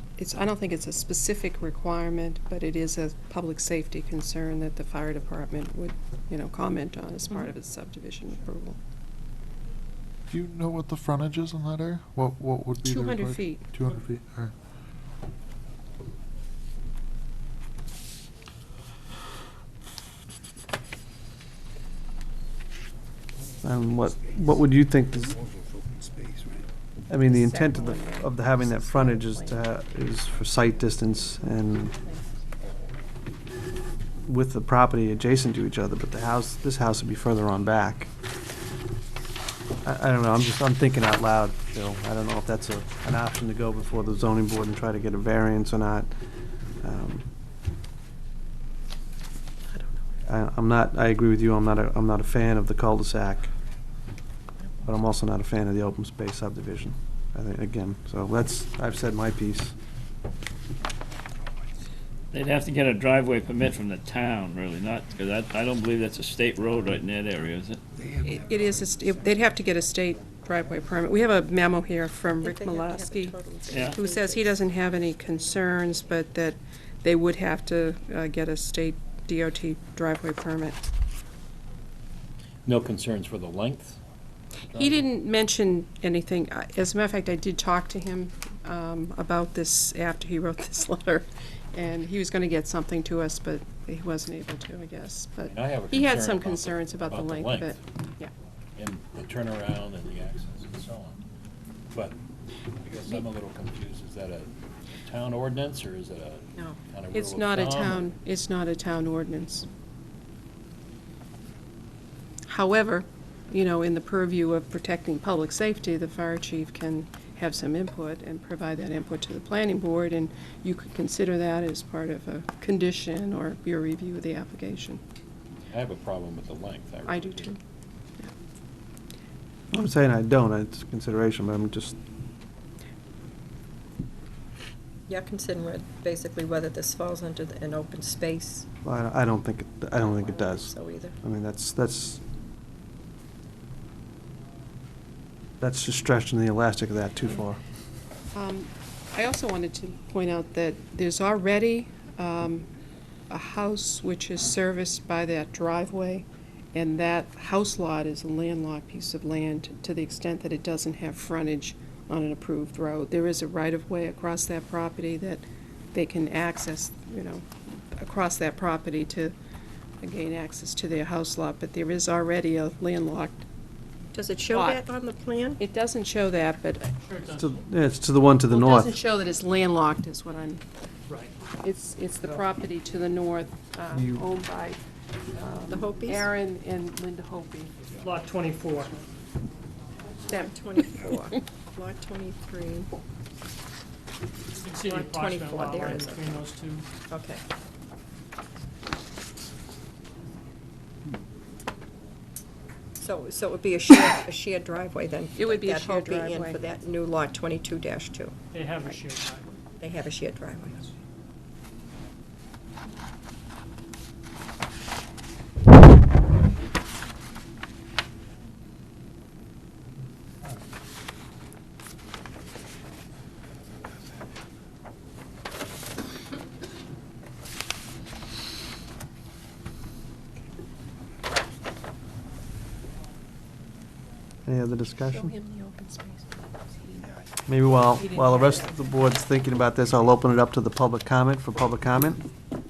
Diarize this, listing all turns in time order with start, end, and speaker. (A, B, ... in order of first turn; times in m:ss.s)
0:00.2-0:08.8 A
0:10.3-0:14.5 B
0:12.8-0:13.7 A
0:23.6-0:25.4 C
0:27.1-0:31.9 C
0:27.2-0:29.6 D
0:30.9-0:31.4 D
0:31.9-0:32.2 D
0:34.2-0:38.1 C
0:39.8-0:46.1 C
0:46.8-0:47.2 C
0:49.7-0:50.0 D
0:50.3-0:53.5 C
0:54.8-0:59.7 C
1:02.3-1:07.8 E
1:08.2-1:13.4 A
1:12.4-1:14.6 D
1:13.9-1:20.8 A
1:22.6-1:23.9 F
1:24.7-1:38.3 A
1:35.6-1:36.4 F
1:38.8-1:41.1 F
1:42.8-1:44.4 F
1:45.0-1:46.3 F
1:47.0-1:47.9 F
1:47.1-1:49.6 A
1:52.5-2:05.0 A
2:05.7-2:07.5 F
2:07.1-2:07.6 A
2:09.7-2:12.0 C
2:15.1-2:18.7 D
2:18.8-2:22.2 C
2:20.0-2:21.1 D
2:25.6-2:27.6 C
2:28.3-2:32.7 A
2:33.3-2:49.3 A
2:50.0-2:53.4 A
2:54.1-2:55.6 D
2:54.5-2:54.8 A
2:55.6-2:57.0 A
2:56.9-2:57.6 G
2:57.4-2:59.0 C
2:58.5-3:00.6 A
3:01.1-3:01.3 G
3:01.6-3:04.8 A
3:03.9-3:04.2 C
3:05.3-3:07.7 A
3:05.7-3:06.3 D
3:07.9-3:09.0 G
3:10.3-3:12.9 D
3:10.3-3:11.1 A
3:14.5-3:16.9 G
3:14.8-3:16.4 D
3:17.1-3:17.4 D
3:23.0-3:28.4 D
3:25.4-3:26.6 A
3:28.5-3:29.6 G
3:29.8-3:30.8 D
3:54.4-3:55.3 C
3:55.1-3:57.1 A
3:57.5-4:02.2 C
3:58.0-3:58.8 A